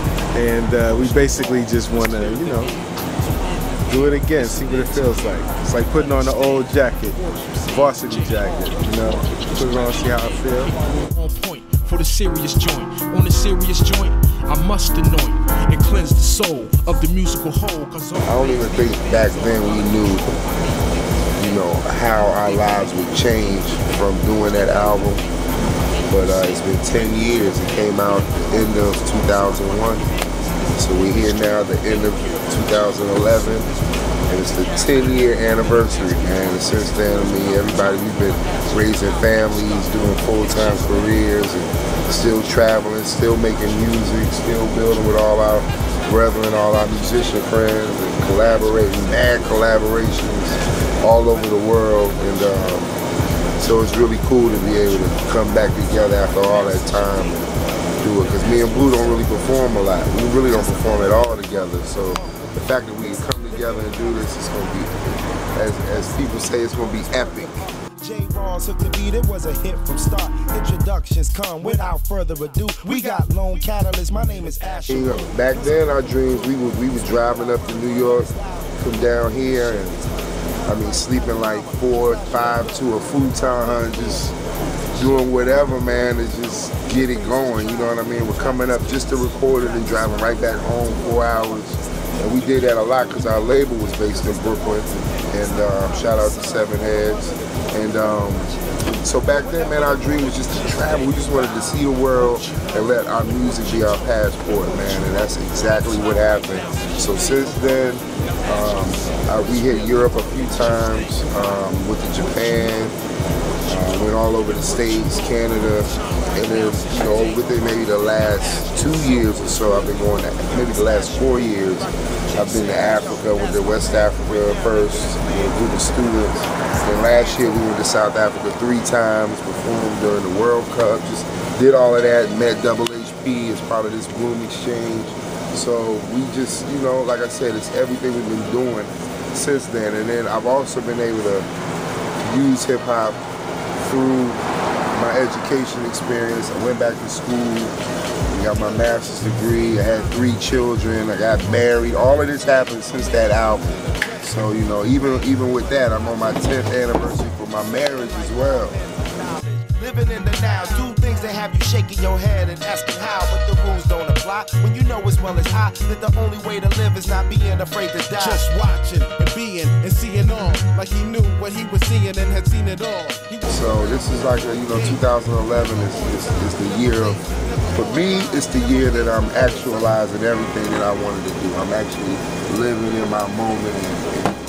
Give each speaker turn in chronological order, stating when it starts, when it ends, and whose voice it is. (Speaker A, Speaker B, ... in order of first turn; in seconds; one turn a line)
Speaker A: 0.3-2.8
Speaker A: 3.9-10.7
Speaker B: 4.8-5.1
Speaker C: 10.7-18.2
Speaker D: 18.2-20.3
Speaker D: 21.4-25.2
Speaker D: 26.1-30.1
Speaker D: 30.8-33.7
Speaker D: 34.3-52.9
Speaker D: 53.6-57.4
Speaker D: 58.0-64.9
Speaker D: 65.5-67.6
Speaker B: 68.0-74.8
Speaker D: 74.9-80.0
Speaker B: 78.3-78.6
Speaker D: 80.7-84.3
Speaker D: 85.0-112.9
Speaker D: 113.7-141.5
Speaker D: 142.2-143.2
Speaker D: 143.8-144.4
Speaker D: 144.9-147.7
Speaker D: 148.3-158.8
Speaker B: 159.7-168.2
Speaker C: 168.1-173.8
Speaker D: 173.5-177.2
Speaker D: 177.7-184.3